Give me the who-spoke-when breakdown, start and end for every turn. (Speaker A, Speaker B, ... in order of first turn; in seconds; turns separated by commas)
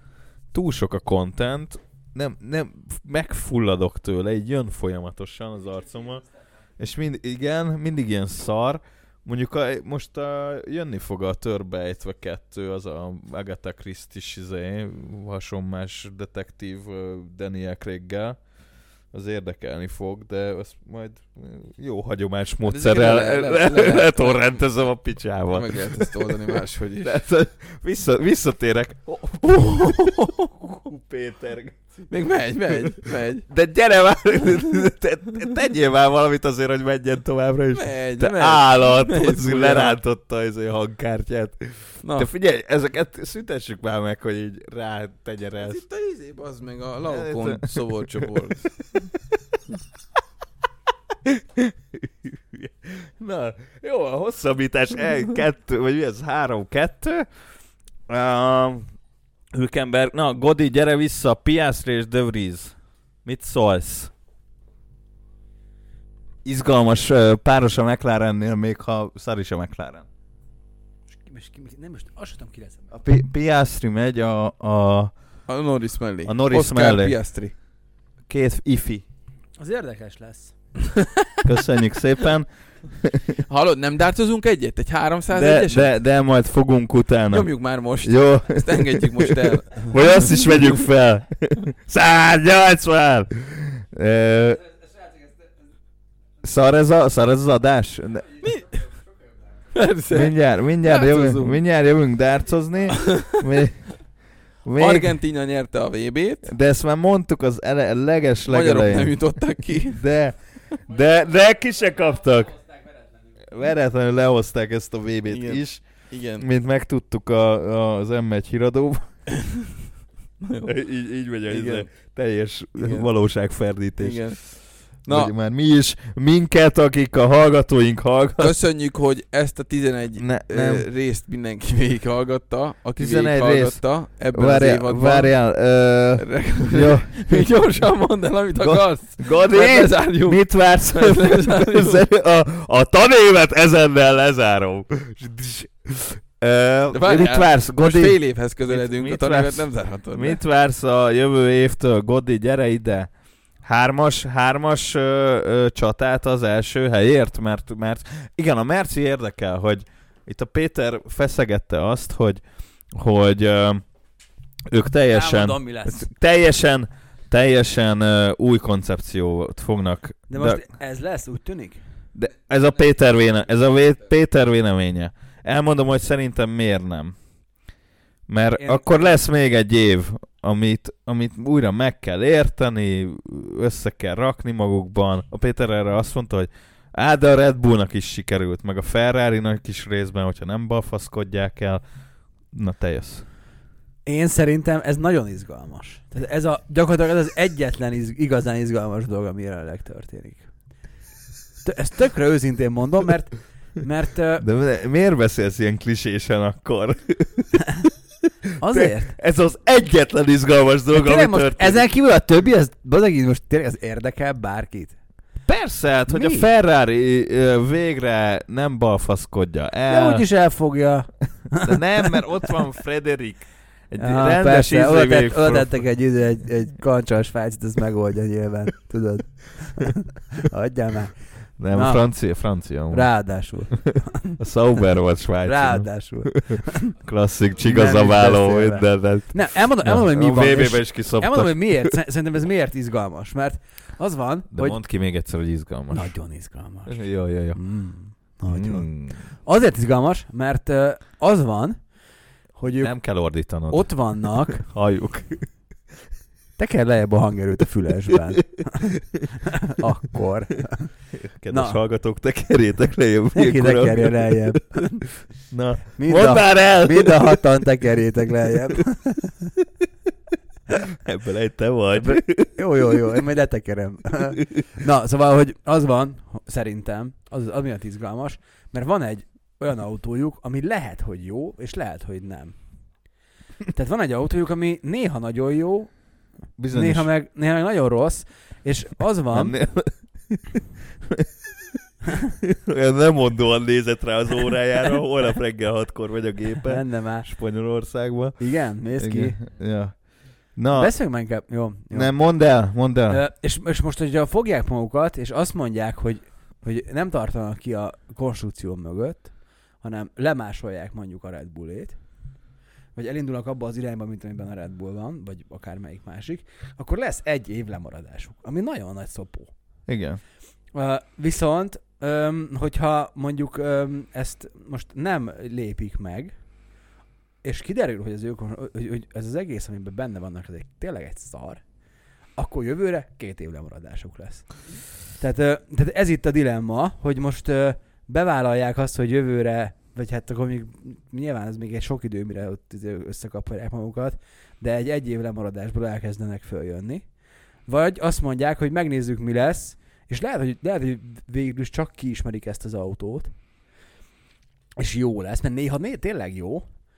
Speaker A: 0.5-6.3, Speaker A: 6.8-18.4, Speaker A: 19.1-32.0, Speaker B: 22.6-24.5, Speaker B: 25.5-27.2, Speaker B: 29.6-30.3, Speaker B: 32.1-33.5, Speaker A: 32.9-45.8, Speaker B: 37.7-40.0, Speaker B: 42.0-42.3, Speaker B: 45.6-48.7, Speaker A: 47.1-49.0, Speaker A: 51.2-57.3, Speaker A: 58.1-58.9, Speaker A: 59.5-64.1, Speaker A: 66.4-70.1, Speaker C: 71.2-72.9, Speaker A: 72.9-75.1, Speaker B: 75.5-77.5, Speaker A: 76.2-77.2, Speaker A: 78.3-79.0, Speaker C: 79.6-80.5, Speaker A: 81.4-83.3, Speaker B: 83.5-85.9, Speaker A: 85.3-94.7, Speaker B: 87.3-90.1, Speaker A: 96.4-98.4, Speaker B: 98.4-98.7, Speaker B: 99.7-101.6, Speaker A: 100.1-105.2, Speaker B: 102.9-103.4, Speaker B: 104.8-106.5, Speaker A: 106.4-112.6, Speaker B: 108.5-110.0, Speaker A: 113.4-119.2, Speaker B: 115.3-116.5, Speaker B: 120.4-120.7, Speaker A: 120.7-128.6, Speaker B: 121.5-121.9, Speaker B: 122.8-123.1, Speaker B: 124.0-125.3, Speaker B: 128.4-135.3, Speaker A: 130.2-130.8, Speaker A: 132.9-137.5, Speaker B: 136.2-142.0, Speaker A: 138.6-153.1, Speaker B: 146.9-150.4, Speaker A: 153.6-163.8, Speaker A: 164.7-170.6, Speaker C: 165.1-166.1, Speaker C: 170.3-171.8, Speaker A: 172.1-177.2, Speaker A: 178.3-193.2, Speaker C: 178.6-179.1, Speaker C: 194.1-200.5, Speaker C: 201.6-204.4, Speaker A: 204.4-211.8, Speaker C: 208.6-209.1, Speaker C: 210.9-215.0, Speaker A: 215.4-220.3, Speaker C: 216.1-216.5, Speaker C: 219.9-221.8, Speaker A: 221.5-225.8, Speaker C: 224.0-234.4, Speaker A: 231.6-233.1, Speaker A: 234.3-241.9, Speaker C: 235.4-236.9, Speaker C: 237.6-244.8, Speaker A: 244.5-246.2, Speaker C: 245.9-252.0, Speaker A: 246.8-247.6, Speaker A: 248.4-249.3, Speaker C: 252.5-254.7, Speaker A: 252.7-255.5, Speaker C: 256.6-260.9, Speaker A: 261.1-264.6, Speaker C: 261.5-261.8, Speaker C: 263.3-265.1, Speaker A: 265.5-267.4, Speaker C: 265.9-269.5, Speaker A: 271.0-273.0, Speaker C: 271.9-282.6, Speaker C: 283.7-286.0, Speaker A: 286.6-287.1, Speaker C: 286.7-289.6, Speaker A: 289.3-290.6, Speaker A: 292.5-300.9, Speaker C: 296.6-297.3, Speaker C: 298.4-299.4, Speaker C: 300.6-312.1, Speaker A: 301.9-303.2, Speaker C: 312.9-319.5, Speaker A: 319.9-320.2, Speaker C: 320.7-326.4, Speaker C: 327.4-331.6, Speaker C: 332.3-347.1, Speaker C: 347.7-353.3, Speaker C: 354.8-356.6